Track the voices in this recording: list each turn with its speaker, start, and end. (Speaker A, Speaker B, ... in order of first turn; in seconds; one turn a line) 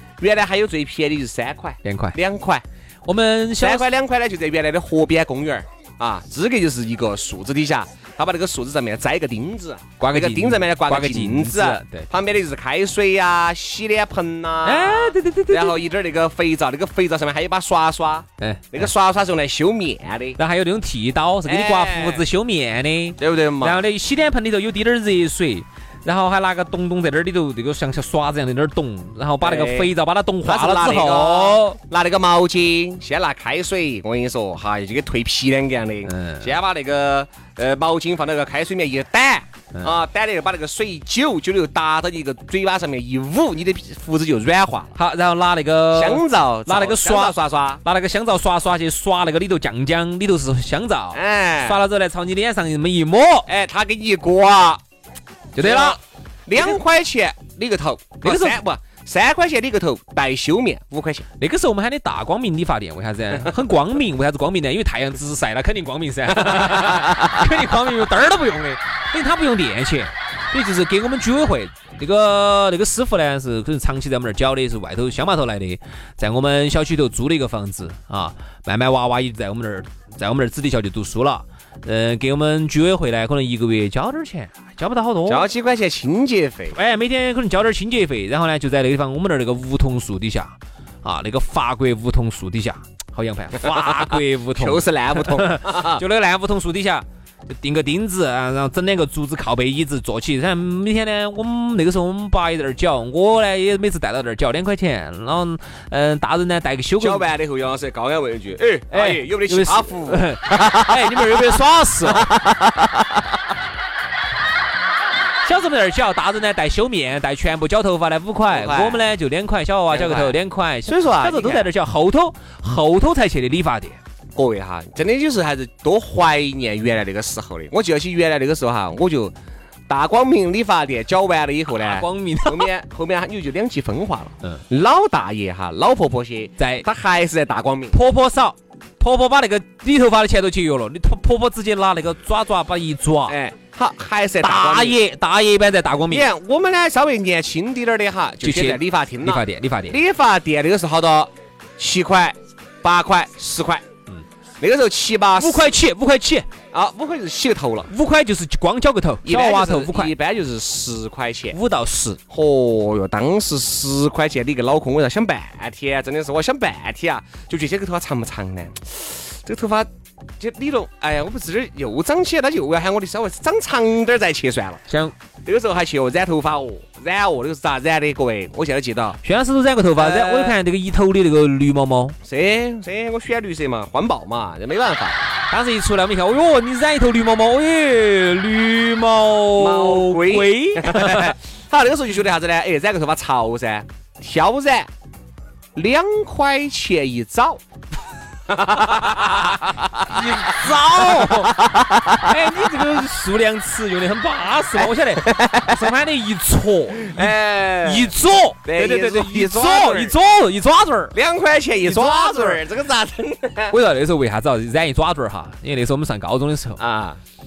Speaker A: 0.2-2.6
Speaker B: 1.8-2.2
Speaker B: 3.0-3.9
Speaker A: 3.6-20.4
Speaker B: 10.0-12.1
Speaker B: 14.6-15.8
Speaker B: 18.4-18.9
Speaker B: 20.4-31.8
Speaker A: 21.4-22.2
Speaker A: 23.2-23.9
Speaker A: 29.4-44.9
Speaker B: 36.0-36.5
Speaker B: 44.9-53.5
Speaker A: 45.9-47.8
Speaker A: 51.1-51.8
Speaker A: 53.5-54.8
Speaker B: 55.5-56.0
Speaker A: 55.6-61.2
Speaker B: 58.2-58.6
Speaker B: 61.4-85.5
Speaker A: 66.4-67.2
Speaker A: 85.3-86.8
Speaker B: 86.7-107.3
Speaker A: 93.9-96.0
Speaker A: 107.0-113.2
Speaker B: 108.9-112.3
Speaker B: 115.4-124.0
Speaker A: 118.5-119.1
Speaker A: 119.9-121.7
Speaker A: 124.3-129.3
Speaker A: 129.9-138.0
Speaker B: 131.7-132.7
Speaker B: 136.6-136.8
Speaker B: 137.9-143.4
Speaker A: 143.3-145.0
Speaker B: 144.4-146.3
Speaker A: 146.1-153.8
Speaker B: 148.4-150.0
Speaker A: 154.6-155.7
Speaker B: 155.3-156.5
Speaker A: 156.7-157.9
Speaker B: 157.9-160.1
Speaker A: 159.2-161.6
Speaker B: 161.5-162.2
Speaker A: 162.3-174.8
Speaker B: 174.9-175.1
Speaker A: 175.4-179.2
Speaker B: 179.2-182.2
Speaker A: 179.9-180.6
Speaker A: 182.2-185.3
Speaker B: 185.5-191.3
Speaker A: 189.6-194.9
Speaker A: 195.7-197.6
Speaker A: 198.5-202.3
Speaker B: 198.8-201.6
Speaker B: 202.2-211.2
Speaker A: 204.8-205.8
Speaker A: 206.9-208.1
Speaker A: 208.6-210.1
Speaker A: 211.1-213.7
Speaker B: 211.8-212.6
Speaker B: 213.7-216.8
Speaker A: 216.8-217.2